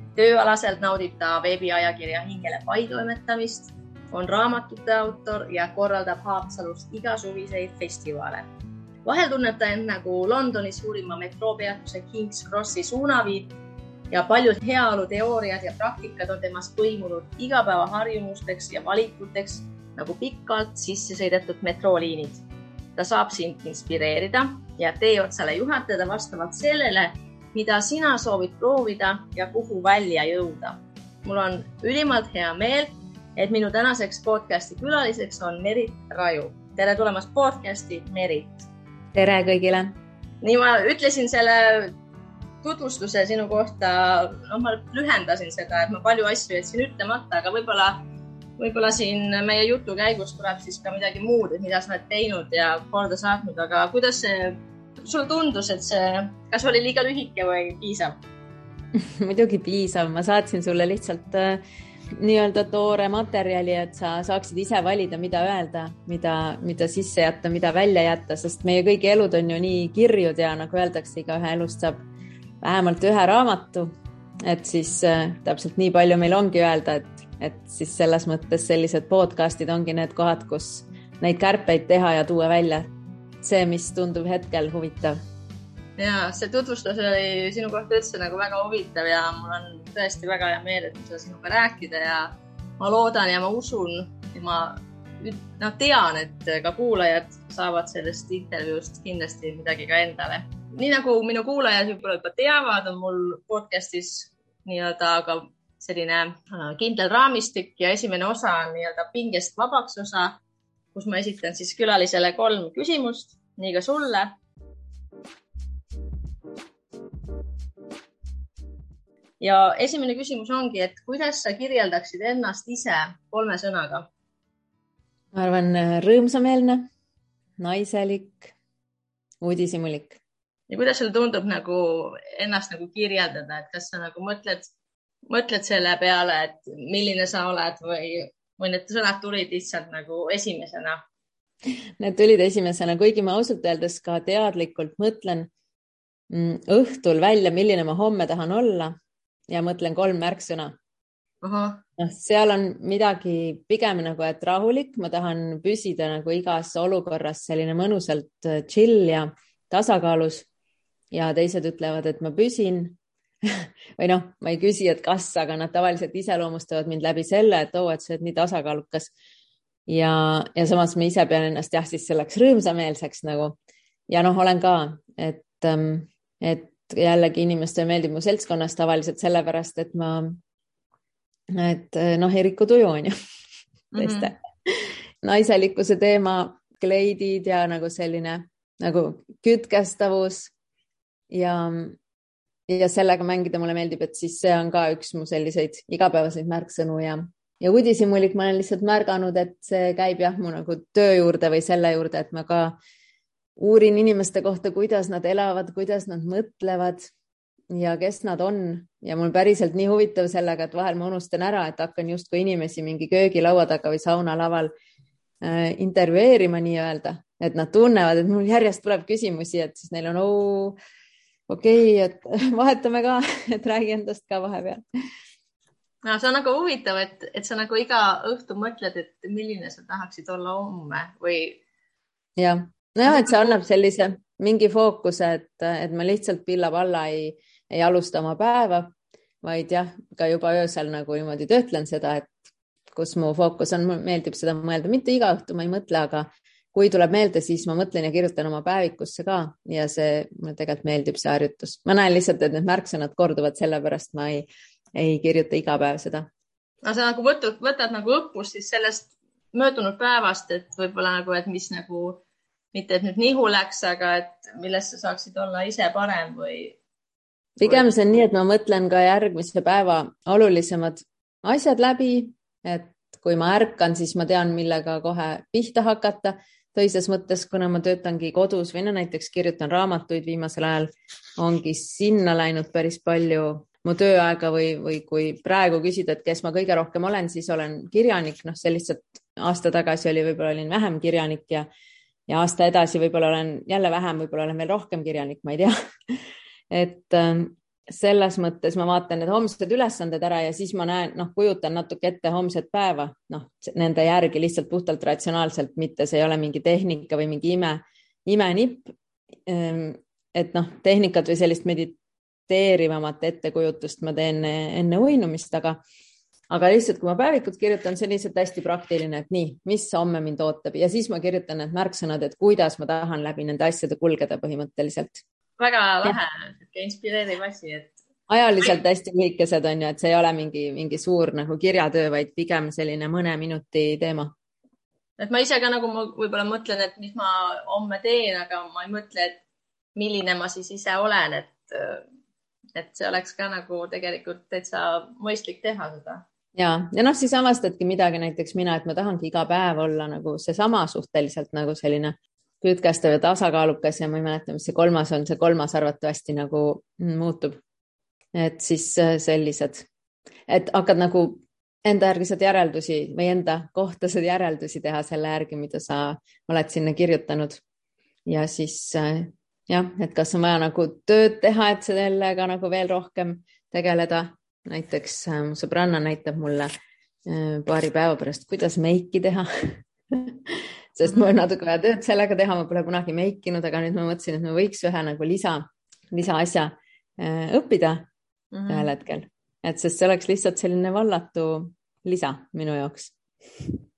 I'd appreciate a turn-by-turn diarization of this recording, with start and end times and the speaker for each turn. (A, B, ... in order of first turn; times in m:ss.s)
0:00.2-0:08.5 A
0:09.0-0:13.6 A
0:14.1-0:38.7 A
0:39.2-0:40.0 B
0:40.4-0:41.9 A
0:42.6-0:48.0 A
0:48.6-0:58.2 A
0:59.0-1:01.6 B
1:02.1-1:12.1 B
1:12.6-1:13.9 B
1:14.4-1:22.9 B
1:23.4-1:25.2 B
1:26.0-1:50.4 A
1:51.0-1:54.4 A
1:59.4-2:04.1 A
2:05.3-2:06.9 B
2:07.6-2:08.5 B
2:09.4-2:10.2 B
2:10.7-2:14.7 A
2:15.3-2:21.0 A
2:22.0-2:25.5 B
2:26.3-2:29.0 B
2:29.5-2:30.8 B
2:31.4-2:31.8 A
2:32.0-2:40.5 B
2:41.1-2:49.1 B
2:49.9-2:53.6 B
2:54.1-3:00.4 B
3:01.5-3:03.1 B
3:03.9-3:04.3 A
3:04.0-3:10.5 B
3:11.3-3:12.0 B
3:12.7-3:22.8 B
3:23.6-3:27.1 B
3:27.7-3:34.7 B
3:35.4-3:40.8 B
3:41.5-3:44.8 B
3:46.0-3:51.6 A
3:52.4-4:02.3 B
3:53.1-3:53.6 A
4:02.9-4:16.3 B
4:16.8-4:22.2 A
4:22.7-4:26.8 A
4:27.6-4:51.7 B
4:27.6-4:27.9 A
4:52.3-5:08.9 B
5:09.5-5:15.8 B
5:16.5-5:25.2 B
5:25.6-5:27.9 A
5:28.3-5:34.4 B
5:35.2-5:39.4 A
5:40.0-5:42.0 A
5:42.8-5:46.2 A
5:46.6-5:57.6 B
5:58.3-5:59.9 B
6:00.5-6:07.6 B
6:08.3-6:16.7 B
6:17.3-6:28.1 B
6:28.5-6:28.9 A
6:28.7-6:33.1 B